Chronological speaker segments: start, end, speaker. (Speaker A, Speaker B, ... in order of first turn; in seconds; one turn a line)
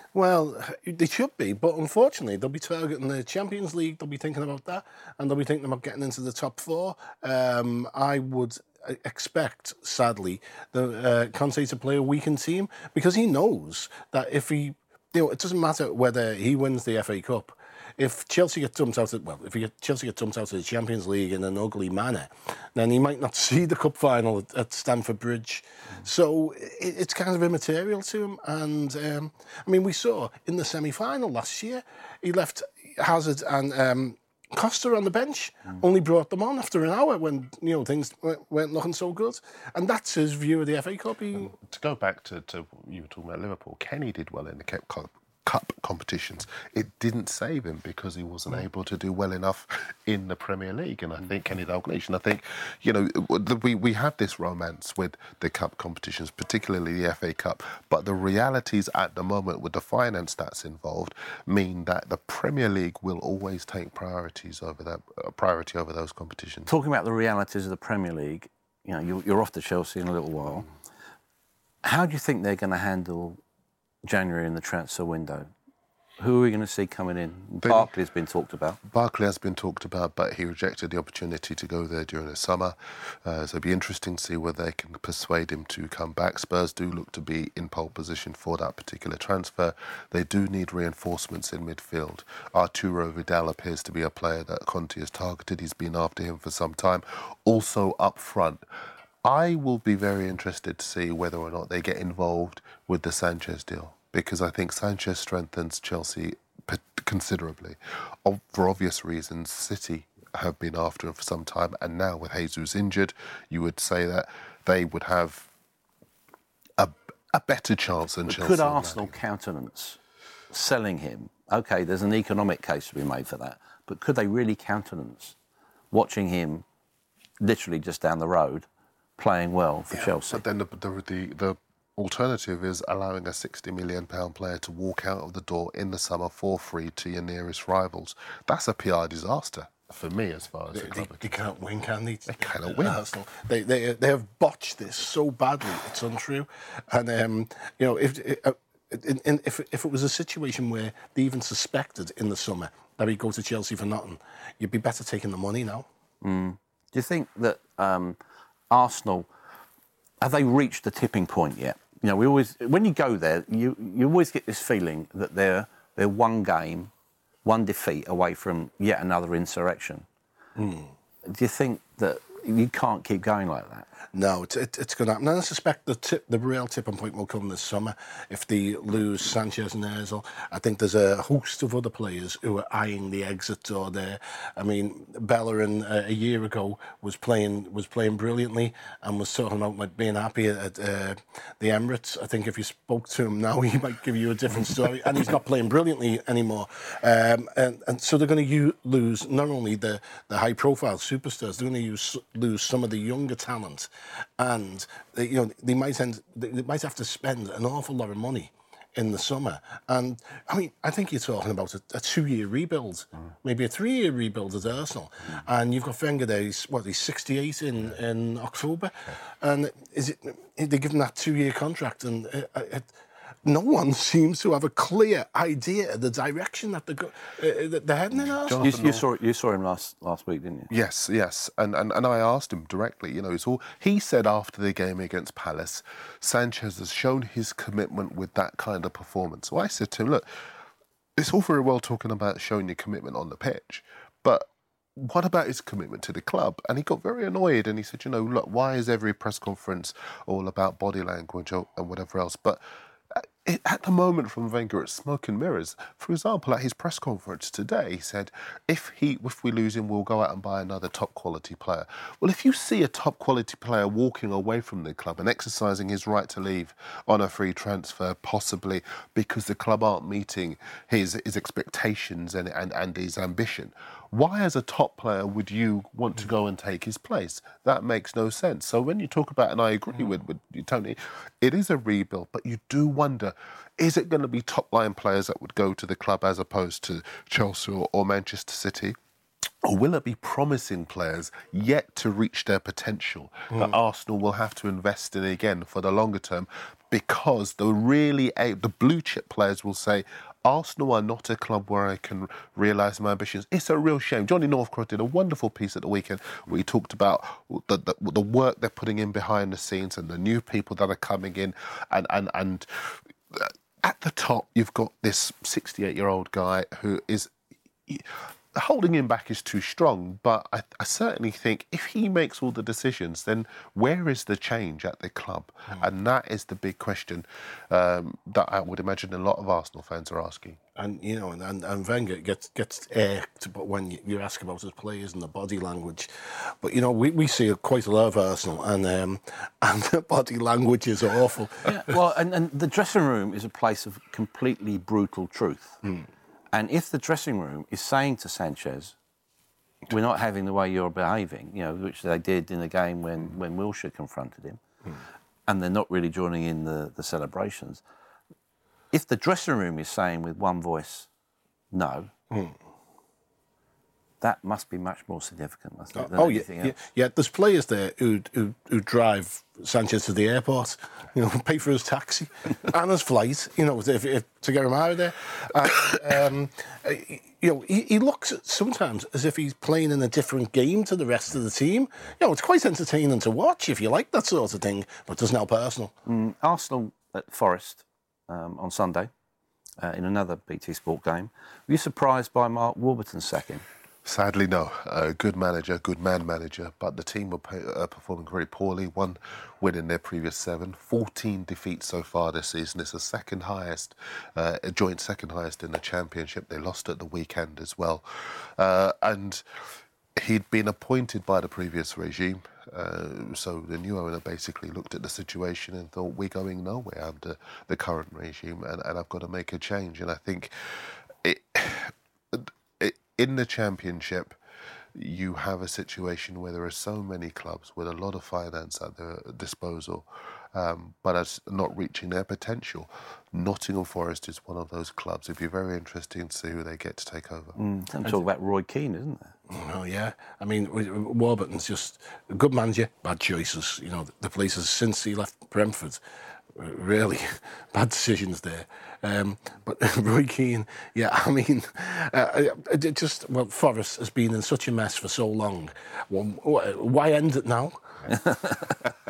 Speaker A: 0.1-41.5
Speaker B: 41.5-66.7
Speaker C: 66.7-70.7
Speaker C: 71.8-73.4
Speaker C: 74.1-75.5
Speaker C: 76.2-78.8
Speaker B: 78.8-98.6
Speaker B: 99.2-115.5
Speaker B: 116.8-119.2
Speaker C: 118.3-120.0
Speaker C: 120.5-125.3
Speaker C: 125.9-126.7
Speaker C: 127.4-128.7
Speaker C: 129.2-130.4
Speaker B: 129.9-141.4
Speaker A: 140.7-155.9
Speaker B: 142.3-143.0
Speaker C: 156.2-158.2
Speaker C: 158.7-159.3
Speaker C: 160.2-166.9
Speaker C: 167.4-170.1
Speaker A: 170.6-170.9
Speaker C: 171.3-173.9
Speaker A: 174.1-222.9
Speaker A: 223.4-228.7
Speaker B: 228.4-229.1
Speaker C: 228.6-230.7
Speaker B: 230.7-240.3
Speaker B: 241.2-289.0
Speaker B: 289.6-317.3
Speaker B: 317.9-330.6
Speaker A: 330.8-341.7
Speaker C: 341.6-345.8
Speaker C: 346.5-348.9
Speaker C: 349.9-354.6
Speaker C: 355.5-357.8
Speaker C: 358.9-361.1
Speaker C: 361.7-362.1
Speaker C: 364.2-366.8
Speaker A: 366.0-385.9
Speaker C: 386.1-389.1
Speaker C: 389.8-393.6
Speaker B: 394.1-409.4
Speaker B: 410.2-424.4
Speaker B: 424.9-437.6
Speaker C: 437.6-439.4
Speaker A: 439.5-446.0
Speaker A: 446.6-457.8
Speaker C: 458.1-458.8